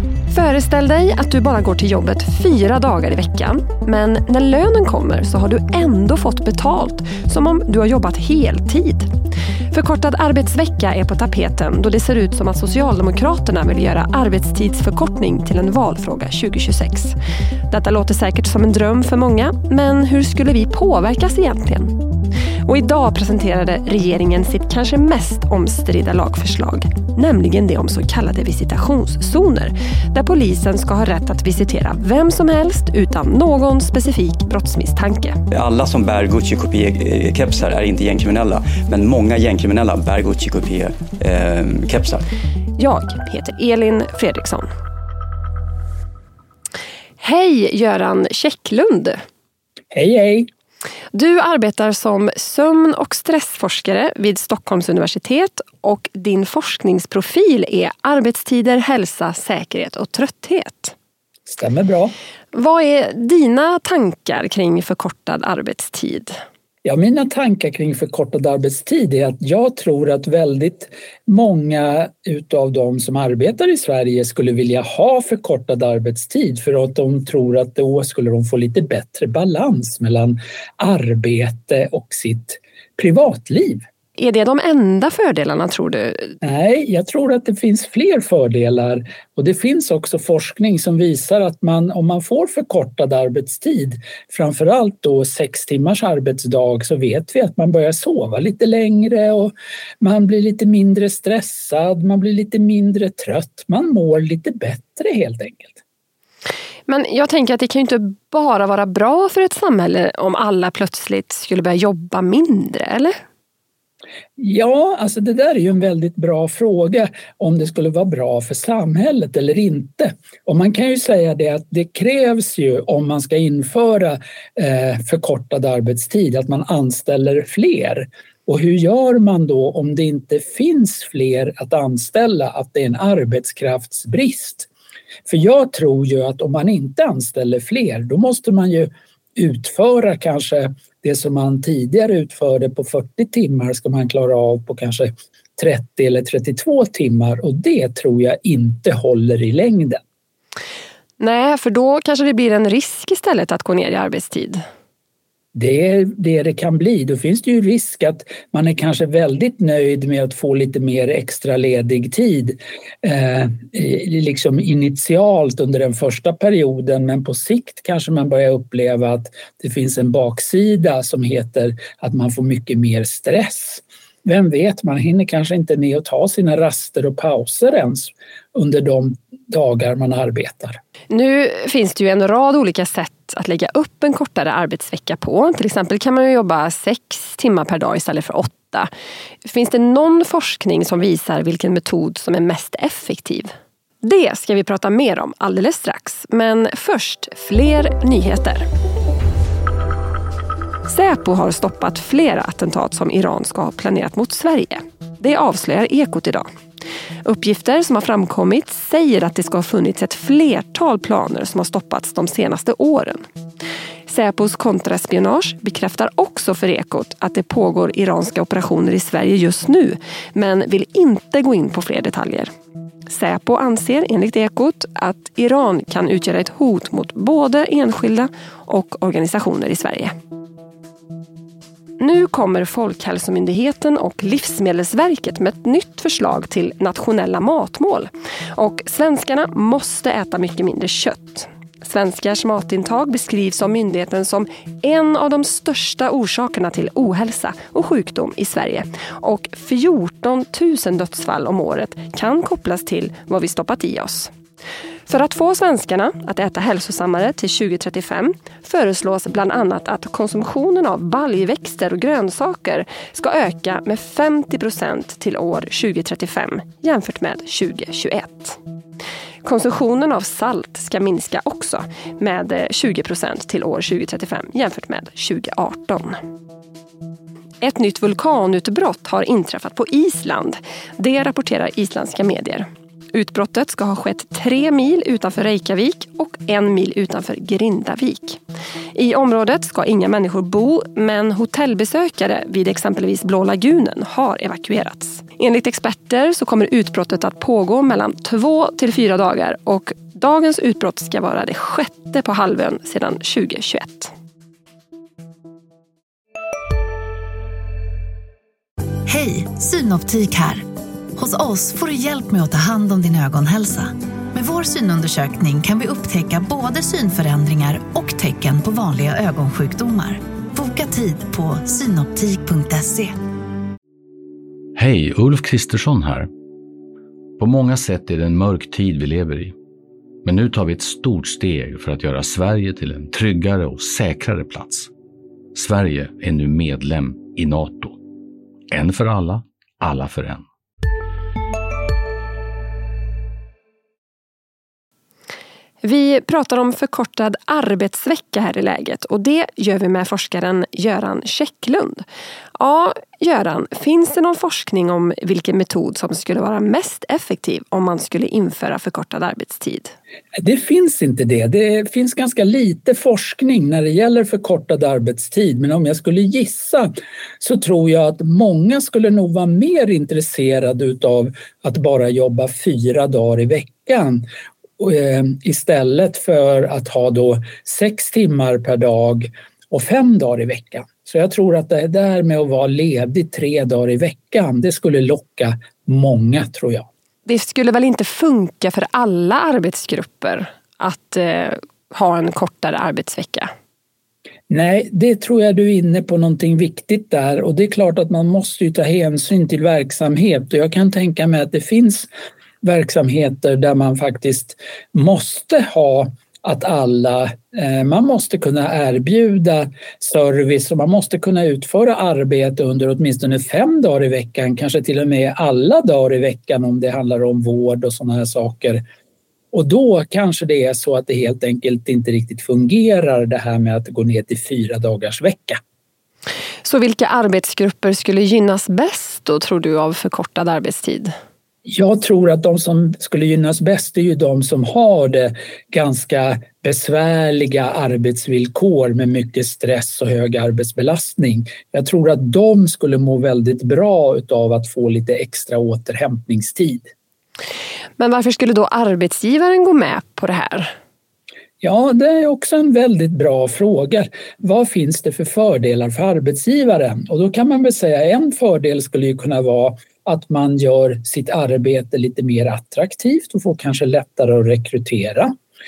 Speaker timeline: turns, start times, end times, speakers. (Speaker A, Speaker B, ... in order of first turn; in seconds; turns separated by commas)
Speaker A: 0.3-9.1, Speaker A: 9.7-17.1, Speaker A: 17.7-22.0, Speaker A: 22.6-35.4, Speaker B: 35.5-42.2, Speaker A: 42.8-44.7, Speaker A: 47.2-49.2, Speaker C: 49.9-50.5, Speaker A: 51.1-60.9, Speaker C: 61.5-62.1, Speaker A: 62.5-66.3, Speaker C: 66.8-83.8, Speaker A: 84.2-86.3, Speaker C: 86.4-105.8, Speaker A: 106.9-113.1, Speaker C: 114.4-134.7, Speaker C: 135.3-150.0, Speaker A: 151.2-154.6, Speaker C: 155.5-180.8, Speaker A: 181.1-188.9, Speaker A: 189.4-198.7, Speaker A: 200.9-206.5, Speaker A: 207.2-213.2, Speaker A: 214.1-222.5, Speaker A: 223.1-230.1, Speaker A: 232.0-254.3, Speaker A: 255.1-268.6, Speaker A: 269.4-276.2, Speaker A: 277.6-288.4, Speaker A: 288.9-304.1, Speaker D: 309.1-323.2, Speaker E: 324.8-326.3, Speaker E: 327.4-329.5, Speaker E: 330.2-334.9, Speaker E: 335.5-338.0, Speaker E: 338.7-340.4, Speaker A: 345.8-352.0, Speaker A: 352.6-359.9, Speaker C: 360.3-374.2, Speaker C: 374.8-386.9, Speaker A: 387.2-393.5, Speaker C: 394.5-402.1, Speaker C: 402.6-418.8, Speaker C: 419.5-425.6, Speaker A: 426.6-431.1, Speaker C: 431.6-446.9, Speaker A: 448.0-450.7, Speaker C: 451.6-465.3